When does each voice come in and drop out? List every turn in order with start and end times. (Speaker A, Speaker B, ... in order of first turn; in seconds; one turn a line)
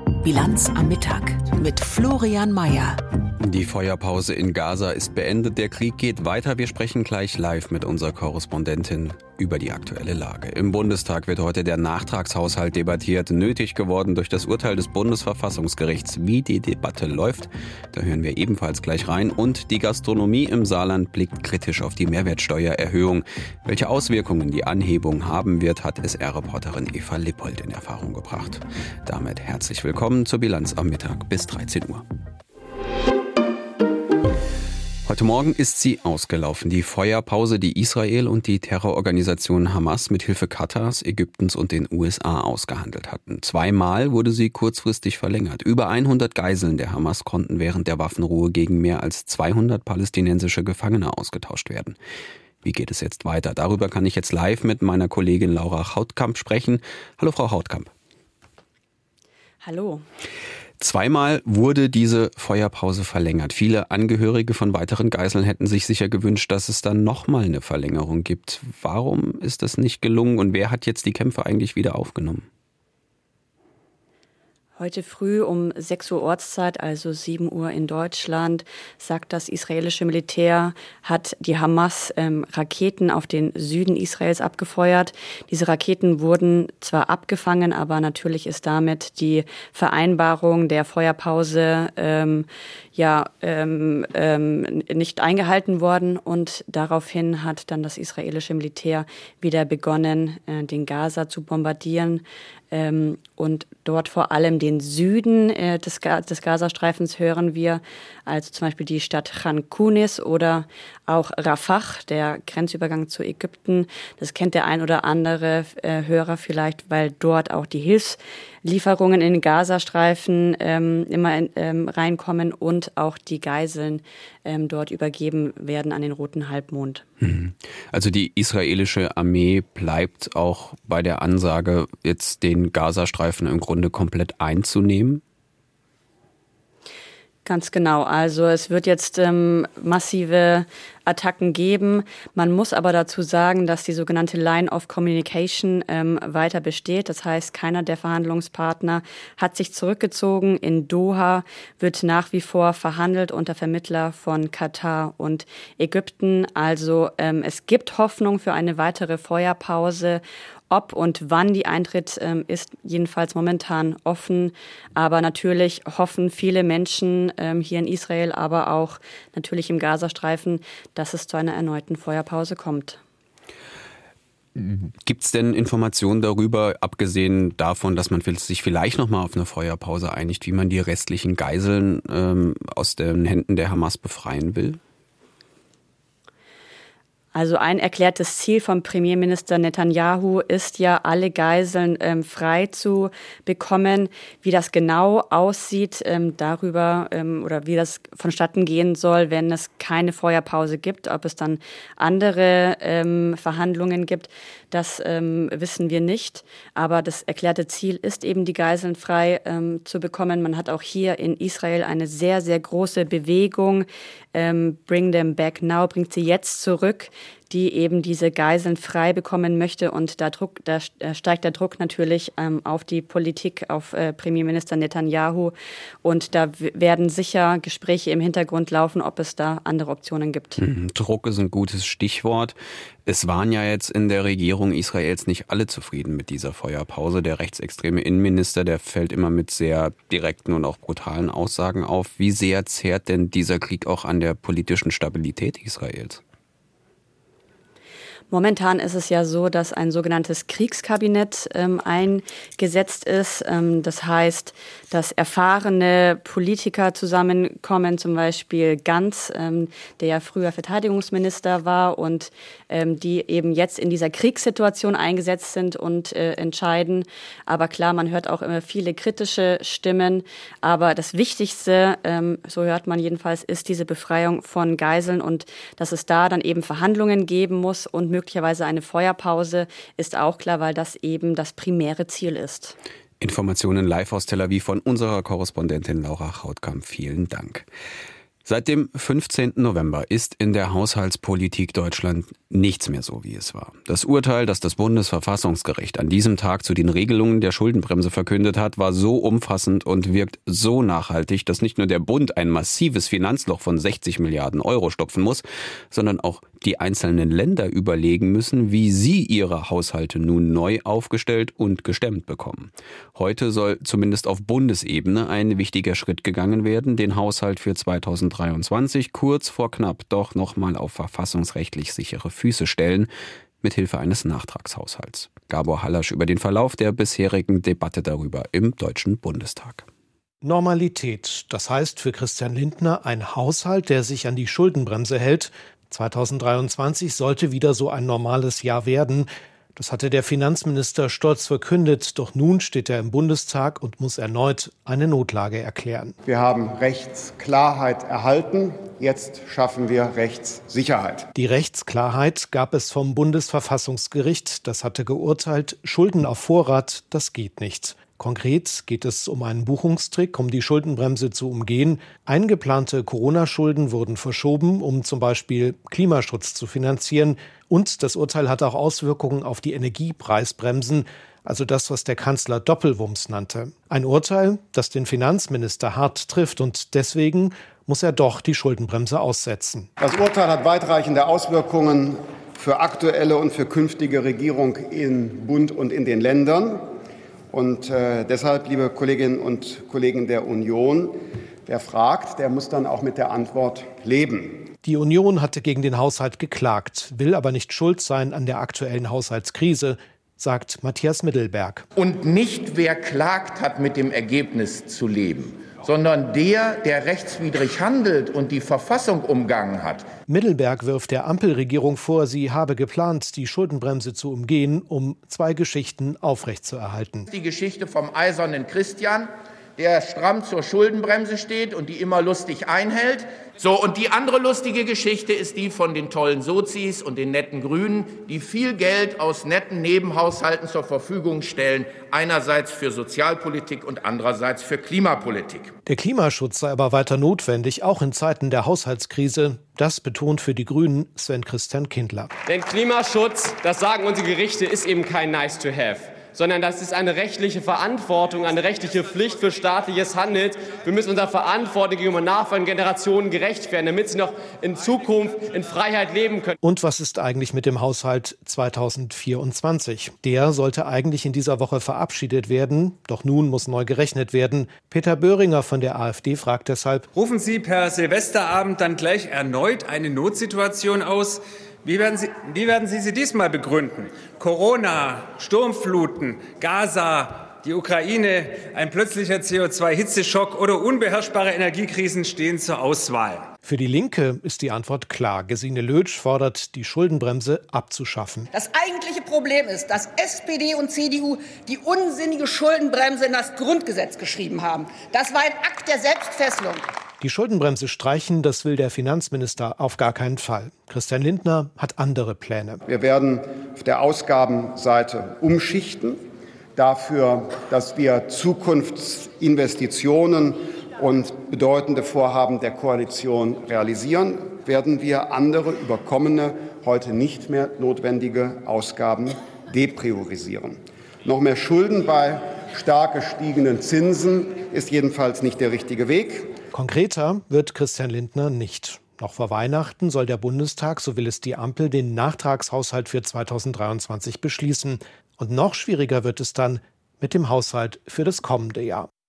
Speaker A: 0.2-3.0
Speaker B: 3.4-32.0
Speaker B: 35.0-52.0
Speaker B: 52.6-57.9
Speaker C: 59.6-60.0
Speaker B: 60.8-72.5
Speaker C: 74.8-127.0
Speaker B: 127.2-135.2
Speaker C: 137.4-173.0
Speaker B: 174.6-184.8
Speaker C: 187.3-225.5
Speaker C: 226.0-230.6
Speaker B: 230.6-246.2
Speaker C: 248.3-282.8
Speaker B: 283.2-287.7
Speaker B: 288.5-323.1
Speaker B: 323.6-329.9
Speaker D: 330.4-346.2
Speaker E: 346.3-351.3
Speaker D: 351.4-379.9
Speaker E: 380.0-386.8
Speaker E: 387.5-394.7
Speaker D: 394.8-401.9
Speaker F: 402.0-410.1
Speaker D: 410.3-417.3
Speaker F: 417.3-435.7
Speaker D: 435.9-442.3
Speaker G: 442.5-456.6
Speaker D: 456.6-467.1
Speaker H: 467.1-483.5
Speaker D: 483.6-488.5
Speaker I: 488.5-496.9
Speaker D: 497.2-502.8
Speaker E: 502.9-506.2
Speaker E: 506.8-526.5
Speaker D: 526.7-539.1